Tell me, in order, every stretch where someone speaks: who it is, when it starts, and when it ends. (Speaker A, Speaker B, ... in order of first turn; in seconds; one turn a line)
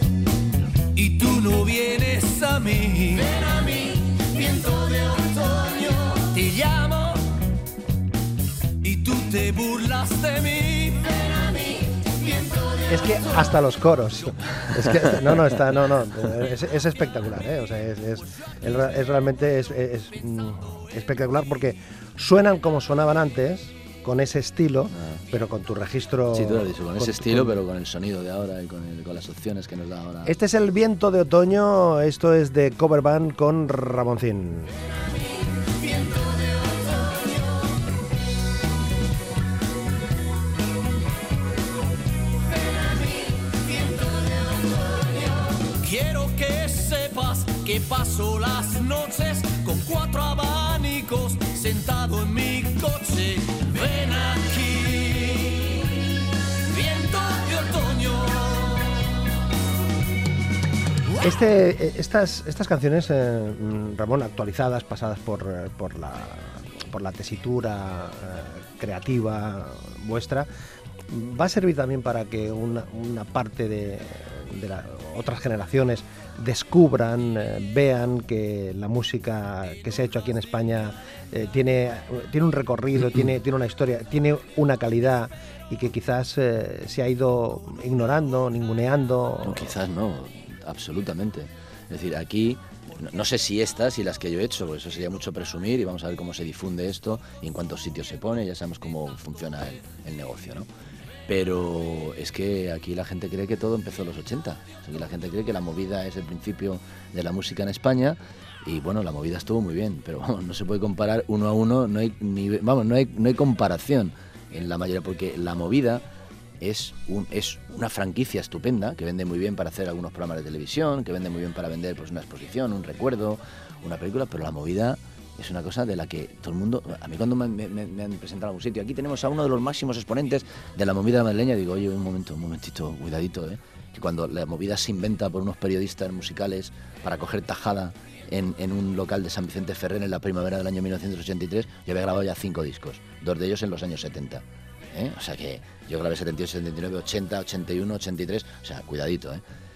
Speaker A: 0.9-7.3
Speaker A: 8.8-13.5
Speaker B: 12.9-27.6
Speaker C: 26.3-30.4
Speaker B: 30.2-34.7
Speaker A: 35.8-37.4
Speaker A: 42.9-55.8
Speaker A: 56.7-59.1
Speaker B: 61.2-70.5
Speaker B: 71.1-89.7
Speaker C: 89.4-100.7
Speaker C: 101.3-116.0
Speaker C: 116.6-149.4